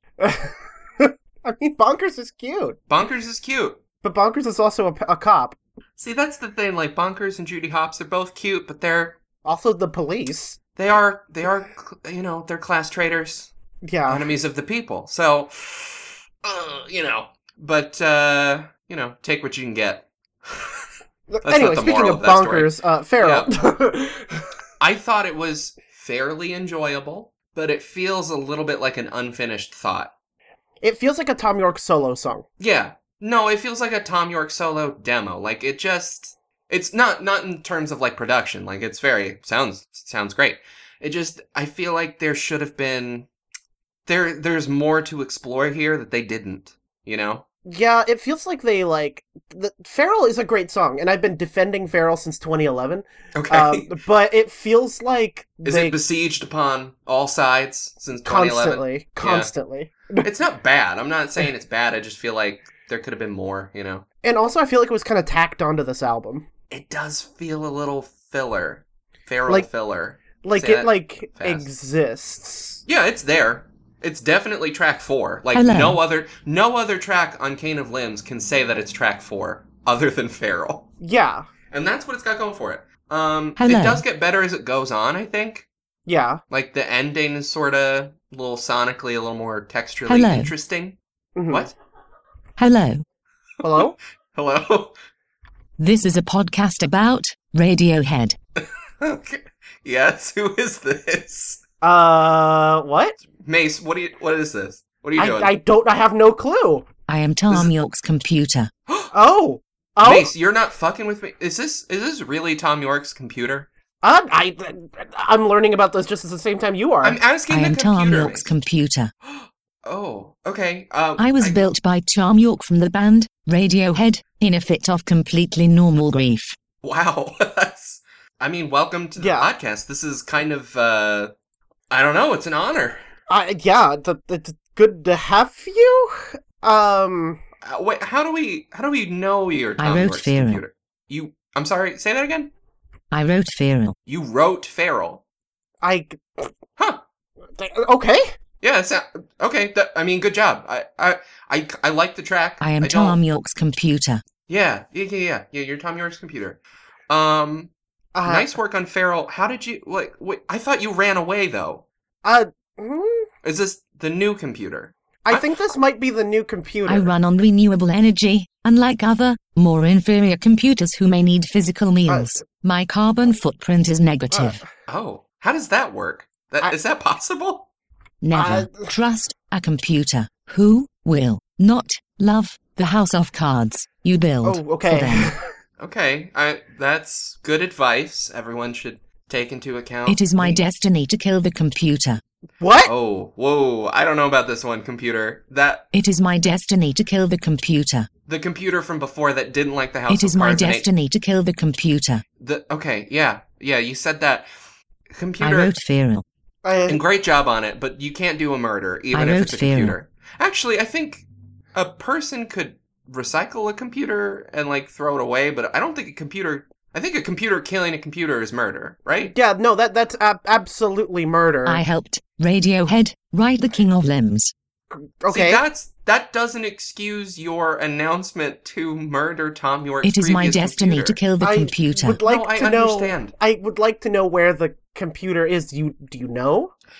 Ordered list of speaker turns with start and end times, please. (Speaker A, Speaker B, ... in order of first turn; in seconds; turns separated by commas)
Speaker A: 0.2-2.8, Speaker B: 2.9-3.8, Speaker A: 4.0-5.6, Speaker B: 6.0-9.2, Speaker A: 9.4-10.6, Speaker B: 10.8-13.5, Speaker A: 13.8-14.3, Speaker B: 14.1-20.8, Speaker A: 21.3-24.5, Speaker B: 21.4-23.5, Speaker B: 24.8-30.1, Speaker A: 30.8-32.5, Speaker B: 32.6-43.3, Speaker B: 44.0-47.4, Speaker A: 47.6-56.0, Speaker B: 53.4-53.9, Speaker B: 55.6-59.5, Speaker A: 58.2-60.2, Speaker B: 60.2-64.0, Speaker A: 64.2-66.5, Speaker B: 66.7-71.7, Speaker A: 70.4-72.8, Speaker B: 72.8-80.9, Speaker C: 75.5-76.0, Speaker A: 81.0-81.5, Speaker B: 81.7-85.7, Speaker C: 83.6-84.0, Speaker A: 86.1-86.4, Speaker B: 86.5-91.0, Speaker C: 90.1-90.5, Speaker A: 91.3-91.7, Speaker B: 91.5-91.7, Speaker C: 92.6-93.0, Speaker A: 93.6-94.0, Speaker B: 93.7-95.0, Speaker C: 95.8-98.4, Speaker B: 99.0-101.6, Speaker A: 101.8-103.2, Speaker B: 103.3-105.5, Speaker A: 105.2-106.8, Speaker C: 107.1-108.7, Speaker A: 109.1-110.3, Speaker B: 110.0-113.7, Speaker A: 114.0-117.2, Speaker B: 117.0-118.5, Speaker C: 117.5-119.1, Speaker B: 119.2-121.7, Speaker C: 121.2-126.6, Speaker B: 126.8-131.3, Speaker A: 129.2-129.5, Speaker B: 131.9-133.0, Speaker A: 133.3-137.4, Speaker B: 137.6-142.5, Speaker C: 139.8-140.6, Speaker C: 143.1-143.9, Speaker B: 144.1-145.2, Speaker A: 145.8-146.5, Speaker B: 146.8-147.0, Speaker A: 147.6-148.3, Speaker B: 148.6-153.2, Speaker C: 152.6-154.2, Speaker B: 154.5-157.7, Speaker A: 158.1-158.5, Speaker B: 158.2-161.8, Speaker A: 162.2-163.3, Speaker B: 163.4-165.5, Speaker A: 165.2-167.1, Speaker C: 166.8-174.6, Speaker A: 172.1-172.4, Speaker A: 174.3-174.6, Speaker B: 174.9-177.7, Speaker C: 178.2-185.3, Speaker A: 178.3-178.8, Speaker A: 184.4-185.4, Speaker B: 185.8-190.6, Speaker C: 190.1-192.2, Speaker A: 192.6-192.9, Speaker B: 192.8-195.9, Speaker C: 195.9-198.1, Speaker B: 198.3-200.9, Speaker C: 200.1-202.2, Speaker B: 202.4-204.5, Speaker B: 205.1-205.7, Speaker C: 205.4-206.2, Speaker A: 206.6-207.0, Speaker B: 206.9-219.3, Speaker C: 209.1-210.0, Speaker A: 219.2-221.8, Speaker C: 221.7-224.5, Speaker A: 224.9-225.6, Speaker B: 225.3-231.2, Speaker C: 230.0-232.2, Speaker A: 231.4-236.7, Speaker B: 232.2-233.3